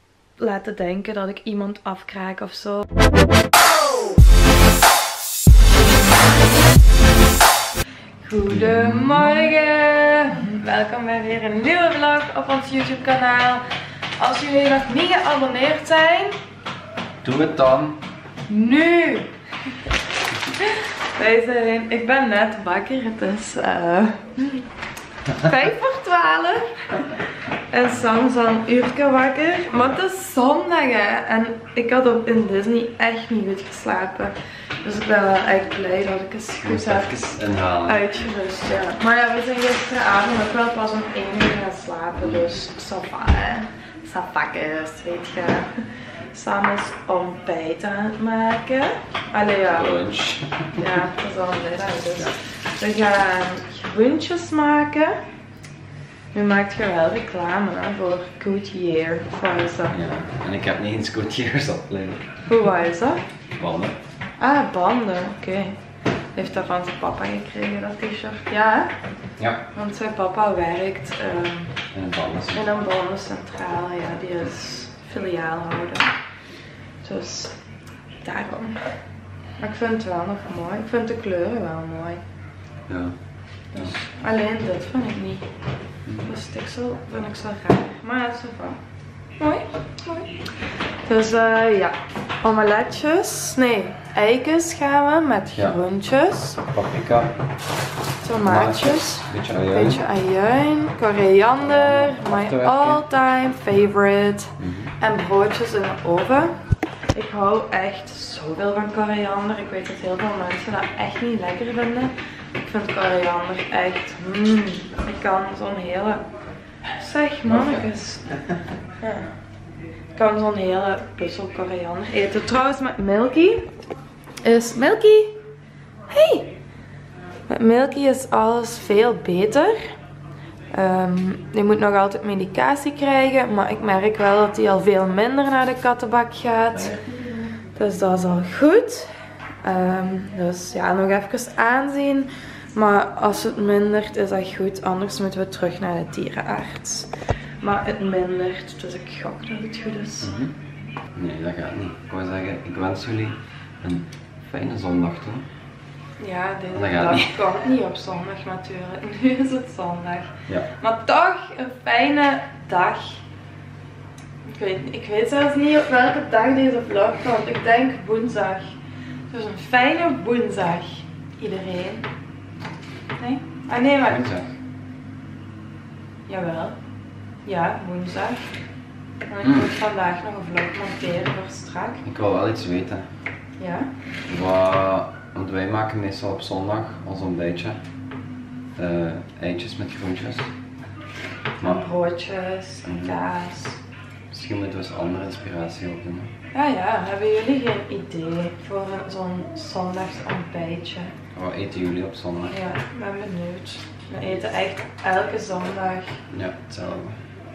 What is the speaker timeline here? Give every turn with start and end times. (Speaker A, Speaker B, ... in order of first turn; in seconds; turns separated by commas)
Speaker A: 0.4-2.8, Speaker A: 8.2-13.6, Speaker B: 8.5-9.4, Speaker A: 14.2-16.4, Speaker B: 17.2-18.0, Speaker A: 18.5-19.3, Speaker A: 20.6-24.7, Speaker A: 25.3-27.1, Speaker A: 27.7-37.1, Speaker B: 36.6-38.0, Speaker A: 37.9-45.7, Speaker B: 42.2-42.5, Speaker A: 46.3-50.0, Speaker B: 49.8-50.8, Speaker A: 50.8-55.1, Speaker A: 56.3-60.0, Speaker B: 59.9-62.2, Speaker A: 62.5-63.2, Speaker B: 63.6-64.0, Speaker A: 64.4-65.8, Speaker A: 66.3-68.9, Speaker B: 69.4-69.7, Speaker A: 69.7-71.8, Speaker B: 71.9-72.7, Speaker A: 72.5-76.1, Speaker A: 77.0-77.6, Speaker A: 78.2-78.9, Speaker A: 79.6-82.2, Speaker B: 82.9-83.2, Speaker A: 83.7-85.5, Speaker A: 86.2-88.8, Speaker A: 89.4-90.5, Speaker A: 91.0-96.6, Speaker B: 96.7-97.3, Speaker A: 98.2-106.5, Speaker B: 98.4-100.0, Speaker B: 101.6-103.0, Speaker B: 104.6-104.9, Speaker A: 107.1-116.2, Speaker A: 117.0-118.2, Speaker B: 117.5-117.9, Speaker A: 118.8-119.3, Speaker A: 120.1-123.7, Speaker A: 124.4-125.3, Speaker A: 126.1-126.5, Speaker A: 127.5-129.9, Speaker A: 130.7-139.1, Speaker B: 136.8-137.4, Speaker A: 139.6-147.1, Speaker A: 147.6-150.3, Speaker B: 150.2-150.5, Speaker B: 151.1-155.5, Speaker A: 156.2-163.2, Speaker B: 156.7-157.4, Speaker A: 164.4-168.8, Speaker A: 169.3-172.1, Speaker A: 173.2-174.2, Speaker B: 174.1-174.5, Speaker A: 176.3-176.8, Speaker A: 177.4-178.5, Speaker A: 179.3-182.0, Speaker B: 179.4-179.7, Speaker B: 182.0-183.1, Speaker A: 183.6-183.9, Speaker B: 184.3-187.8, Speaker B: 188.8-190.5, Speaker A: 191.6-193.8, Speaker B: 192.8-193.2, Speaker B: 194.3-196.3, Speaker A: 196.5-201.1, Speaker B: 201.3-202.6, Speaker A: 202.5-206.2, Speaker B: 206.3-207.2